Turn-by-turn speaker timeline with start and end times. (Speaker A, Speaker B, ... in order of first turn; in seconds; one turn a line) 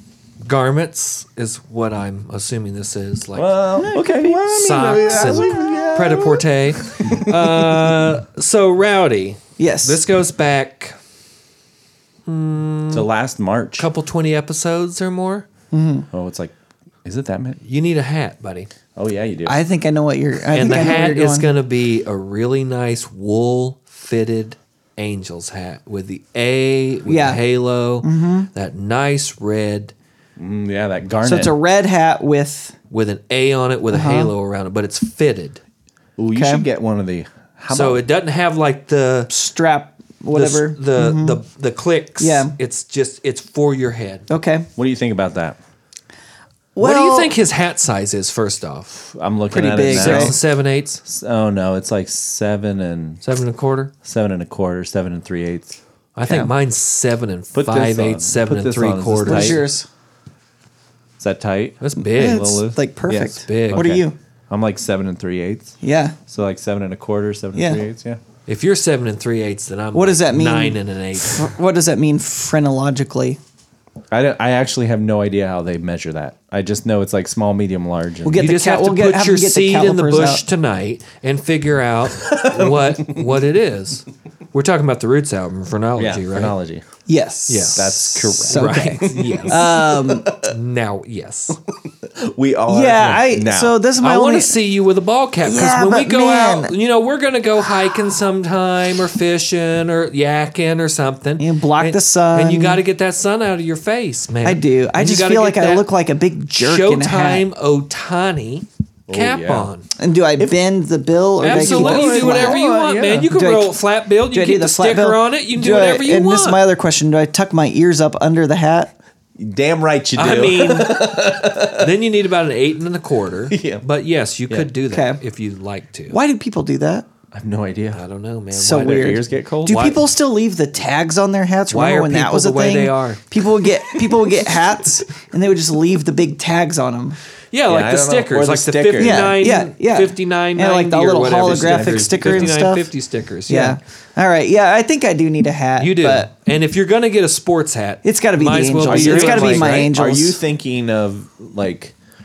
Speaker A: 0.4-3.5
Speaker B: 3.3-8.0
Speaker C: 3.8-5.4
Speaker A: 4.4-10.9
Speaker C: 9.6-10.0
Speaker A: 12.2-13.1
Speaker B: 12.9-13.9
Speaker A: 13.8-15.5
Speaker C: 15.7-16.1
Speaker B: 16.1-16.5
Speaker B: 17.0-17.6
Speaker A: 17.6-18.7
Speaker B: 18.9-19.6
Speaker C: 19.4-21.5
Speaker A: 20.5-29.9
Speaker C: 27.1-27.4
Speaker C: 28.0-28.5
Speaker B: 30.4-31.5
Speaker C: 31.2-32.7
Speaker A: 32.9-35.6
Speaker C: 33.9-34.3
Speaker B: 36.2-38.0
Speaker C: 36.3-36.6
Speaker A: 37.7-39.3
Speaker C: 39.3-41.4
Speaker A: 40.3-44.3
Speaker C: 42.2-42.5
Speaker C: 44.3-44.7
Speaker B: 44.8-45.6
Speaker C: 46.7-47.3
Speaker A: 46.8-49.1
Speaker B: 49.1-50.4
Speaker C: 49.5-50.4
Speaker A: 49.8-51.0
Speaker B: 51.0-53.2
Speaker A: 53.2-53.9
Speaker B: 54.0-56.5
Speaker A: 56.1-59.6
Speaker B: 57.5-59.6
Speaker C: 59.2-59.9
Speaker B: 61.2-68.2
Speaker A: 61.8-62.6
Speaker C: 62.1-64.1
Speaker A: 63.2-63.9
Speaker C: 65.8-66.2
Speaker C: 67.5-67.8
Speaker A: 68.5-71.5
Speaker C: 69.9-73.4
Speaker B: 74.1-78.4
Speaker C: 78.2-80.4
Speaker A: 78.4-86.5
Speaker B: 82.2-83.2
Speaker B: 86.0-86.8
Speaker C: 87.1-90.3
Speaker A: 87.5-91.6
Speaker B: 87.7-90.5
Speaker B: 92.0-93.8
Speaker C: 92.7-94.5
Speaker A: 94.0-105.9
Speaker C: 95.4-96.7
Speaker C: 101.4-102.8
Speaker C: 104.4-107.4
Speaker A: 106.5-109.8
Speaker B: 109.1-109.7
Speaker C: 110.0-112.6
Speaker A: 111.4-116.6
Speaker B: 111.4-113.3
Speaker C: 113.3-113.7
Speaker C: 114.3-118.9
Speaker B: 119.4-121.9
Speaker A: 120.2-126.2
Speaker B: 123.5-123.8
Speaker C: 124.9-125.2
Speaker C: 126.1-127.0
Speaker B: 127.3-128.0
Speaker A: 127.9-130.0
Speaker C: 128.5-137.2
Speaker B: 128.7-129.9
Speaker A: 131.7-133.2
Speaker A: 137.5-143.8
Speaker B: 137.7-139.3
Speaker C: 139.0-142.9
Speaker C: 143.5-146.3
Speaker A: 145.8-149.9
Speaker C: 148.0-150.4
Speaker B: 148.8-151.9